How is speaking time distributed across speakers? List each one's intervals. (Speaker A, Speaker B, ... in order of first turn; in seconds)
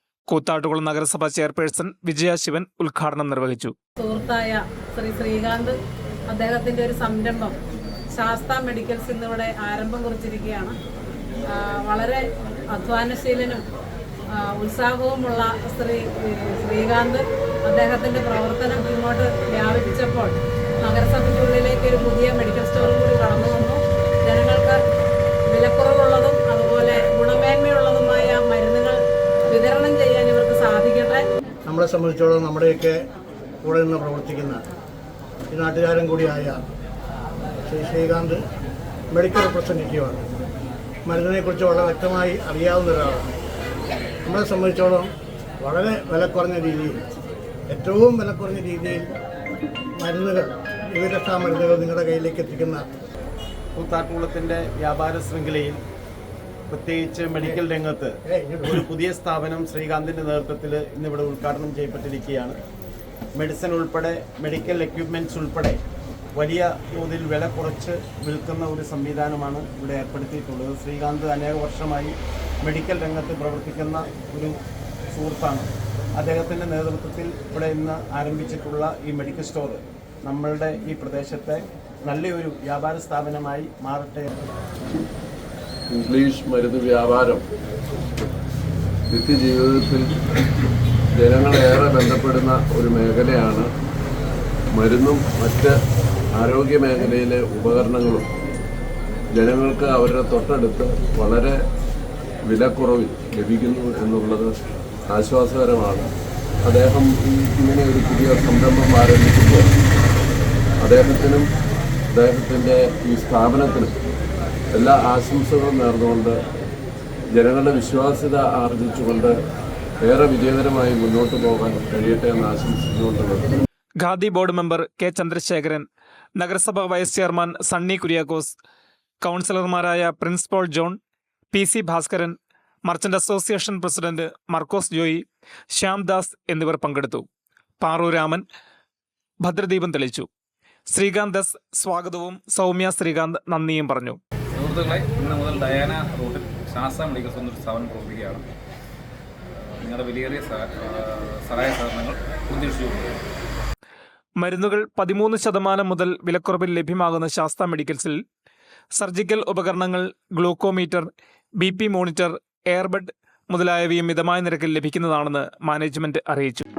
Speaker A: 0.3-3.7, 124.0-125.8, 126.4-128.6, 129.2-131.0, 131.5-137.2, 137.8-138.4, 139.4-140.3, 140.9-144.2, 154.4-158.2, 158.9-166.6
Speaker B: 4.0-5.8, 6.3-7.5, 8.1-10.7, 11.5-13.6, 14.3-24.8, 25.5-31.2
Speaker C: 31.6-33.0, 33.6-34.6, 35.5-36.6, 37.6-38.4, 39.1-40.3, 41.0-43.2, 44.2-45.1, 45.6-47.0, 47.7-49.1, 50.0-52.8, 58.2-58.9
Speaker D: 53.8-55.8, 56.7-62.6, 63.3-65.8, 66.3-74.5, 75.1-84.3
Speaker E: 85.9-87.4, 89.1-90.2, 91.1-93.7, 94.7-95.7, 96.3-98.3, 99.3-101.5, 102.4-104.5, 105.1-106.1, 106.6-109.7, 110.8-111.5, 112.1-113.9, 114.7-116.3, 117.3-119.3, 120.0-123.5
Speaker F: 144.5-148.4, 149.8-153.2